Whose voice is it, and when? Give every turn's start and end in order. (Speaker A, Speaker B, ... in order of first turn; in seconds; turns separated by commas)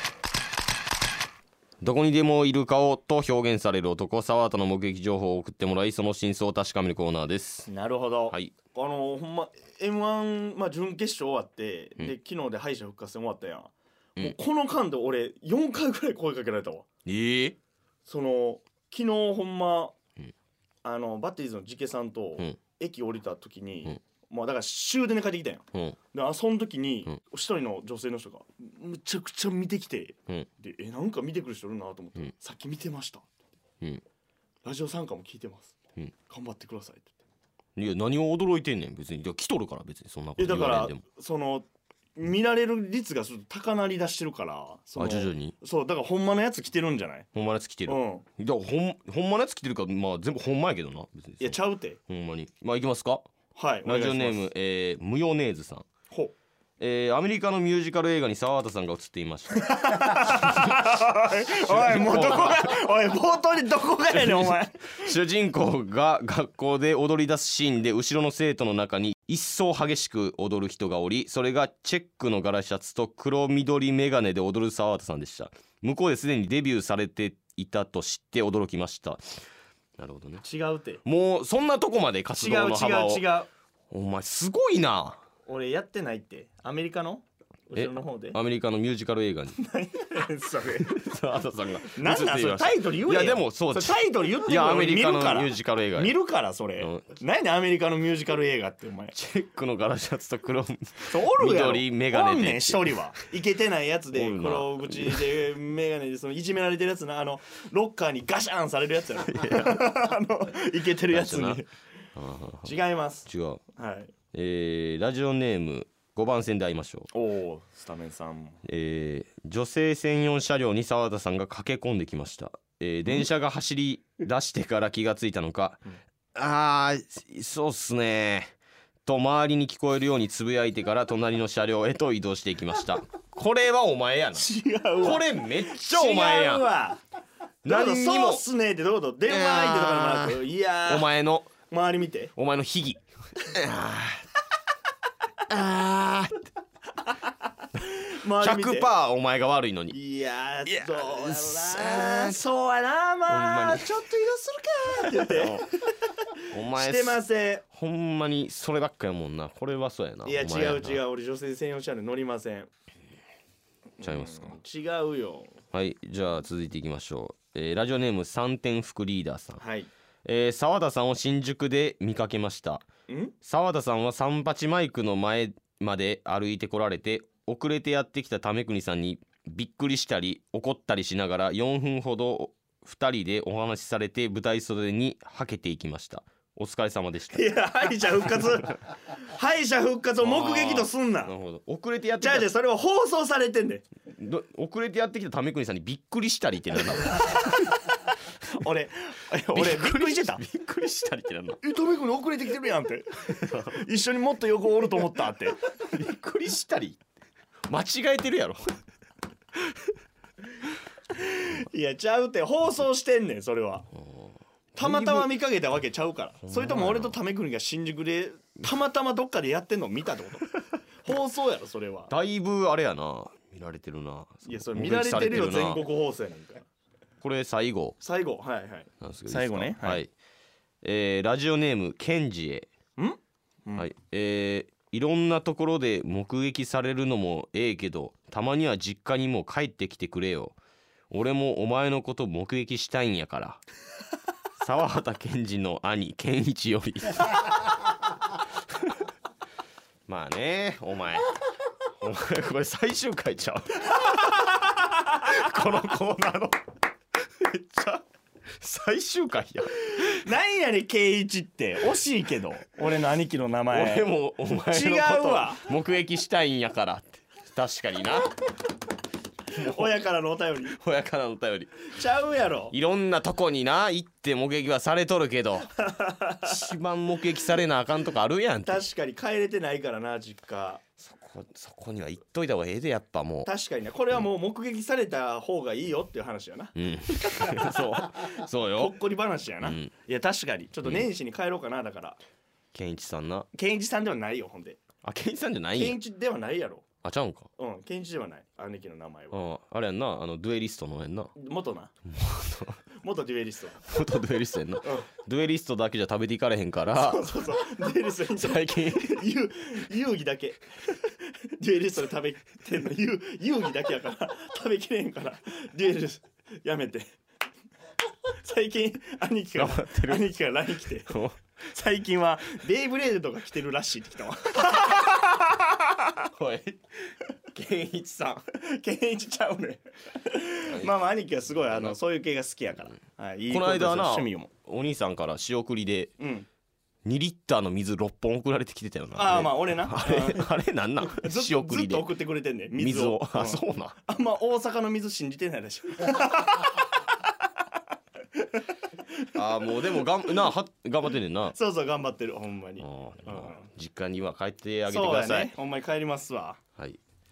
Speaker A: 1.8-7.7, Speaker B: 7.7-16.9, Speaker A: 8.3-8.5, Speaker A: 17.1-17.6, Speaker B: 18.1-19.9, Speaker B: 20.8-33.3, Speaker B: 34.6-35.8, Speaker B: 36.3-37.1, Speaker A: 37.8-41.0, Speaker B: 40.4-41.7, Speaker B: 42.2-47.3, Speaker A: 45.0-45.5, Speaker A: 47.3-53.2, Speaker B: 47.9-48.3, Speaker B: 51.4-52.0, Speaker B: 53.5-54.4, Speaker A: 53.8-55.9, Speaker A: 56.8-60.7, Speaker B: 59.6-65.1, Speaker A: 61.6-62.8, Speaker A: 64.1-79.2, Speaker A: 80.0-80.4, Speaker B: 80.4-81.0, Speaker A: 81.0-83.3, Speaker B: 82.4-83.5, Speaker A: 83.9-85.2, Speaker B: 85.5-88.4, Speaker A: 87.7-89.6, Speaker B: 89.6-91.1, Speaker A: 91.0-96.2, Speaker B: 91.9-99.2, Speaker A: 96.8-97.1, Speaker A: 99.1-103.0, Speaker B: 101.0-111.7, Speaker A: 104.1-105.3, Speaker A: 109.3-109.8, Speaker A: 111.1-111.6, Speaker A: 112.2-112.7, Speaker B: 112.6-114.1, Speaker A: 113.3-113.6, Speaker A: 114.3-117.1, Speaker B: 117.1-118.6, Speaker A: 118.7-125.8, Speaker A: 126.3-128.6, Speaker A: 129.1-134.5, Speaker B: 134.3-137.0, Speaker A: 135.0-136.7, Speaker A: 137.6-138.4, Speaker B: 137.7-141.1, Speaker A: 139.3-141.5, Speaker B: 141.7-142.3, Speaker A: 142.4-144.3, Speaker A: 145.5-146.4, Speaker B: 148.0-148.9, Speaker A: 148.4-150.0, Speaker B: 149.9-157.7, Speaker A: 150.7-152.4, Speaker A: 153.3-154.1, Speaker A: 154.9-155.7, Speaker A: 156.5-161.0, Speaker B: 160.2-162.7, Speaker B: 164.0-165.6, Speaker A: 164.0-164.6, Speaker A: 165.7-169.6, Speaker B: 169.6-169.9, Speaker A: 170.2-172.8, Speaker B: 173.1-173.3, Speaker A: 173.4-187.5, Speaker B: 187.3-191.3, Speaker A: 190.2-192.5, Speaker B: 192.2-193.8, Speaker A: 194.1-197.8, Speaker B: 198.4-200.4, Speaker A: 199.5-201.6, Speaker B: 201.6-205.6, Speaker A: 203.5-203.8, Speaker A: 205.9-207.0, Speaker A: 207.7-208.6, Speaker B: 211.1-213.9, Speaker A: 214.0-215.3, Speaker B: 214.8-220.5, Speaker A: 216.4-217.2, Speaker B: 221.0-222.1, Speaker A: 222.1-225.8, Speaker B: 224.4-226.7, Speaker A: 227.2-228.0, Speaker B: 228.0-230.1, Speaker A: 229.0-230.1, Speaker A: 230.8-232.7, Speaker B: 233.0-233.9, Speaker A: 233.8-240.6, Speaker A: 241.1-243.6, Speaker A: 244.6-247.7, Speaker A: 250.1-251.3, Speaker A: 252.0-256.6, Speaker A: 257.4-258.0, Speaker A: 258.6-260.3, Speaker B: 260.2-264.1, Speaker A: 263.7-268.3, Speaker B: 264.6-265.7, Speaker B: 269.5-270.8, Speaker A: 269.6-269.9, Speaker A: 270.6-271.9, Speaker B: 271.9-272.8, Speaker A: 272.7-275.7, Speaker B: 275.8-276.6, Speaker A: 276.4-278.8, Speaker B: 278.6-280.8, Speaker A: 281.0-283.5, Speaker B: 283.4-292.2, Speaker A: 286.8-289.0, Speaker A: 289.6-289.9, Speaker A: 290.8-291.1, Speaker A: 292.7-293.5, Speaker B: 293.5-294.8, Speaker A: 295.0-296.0, Speaker B: 295.8-296.9, Speaker A: 297.0-297.5, Speaker B: 297.6-299.4, Speaker A: 299.3-301.3, Speaker B: 301.4-301.9, Speaker A: 302.1-302.8, Speaker B: 303.0-303.9, Speaker A: 303.9-307.5, Speaker B: 304.8-305.1, Speaker B: 307.0-317.1, Speaker A: 308.3-309.2, Speaker B: 318.3-321.2, Speaker A: 319.6-320.4, Speaker A: 321.1-321.4, Speaker B: 321.7-326.2, Speaker A: 326.3-326.8, Speaker A: 327.5-328.4, Speaker B: 328.5-334.5, Speaker A: 331.7-332.0, Speaker A: 333.5-336.1, Speaker B: 336.2-336.5, Speaker A: 337.1-342.1, Speaker B: 339.1-340.5, Speaker B: 341.0-347.3, Speaker A: 342.8-344.0, Speaker A: 349.4-351.6, Speaker B: 351.5-353.7, Speaker A: 352.8-355.5, Speaker B: 354.9-356.6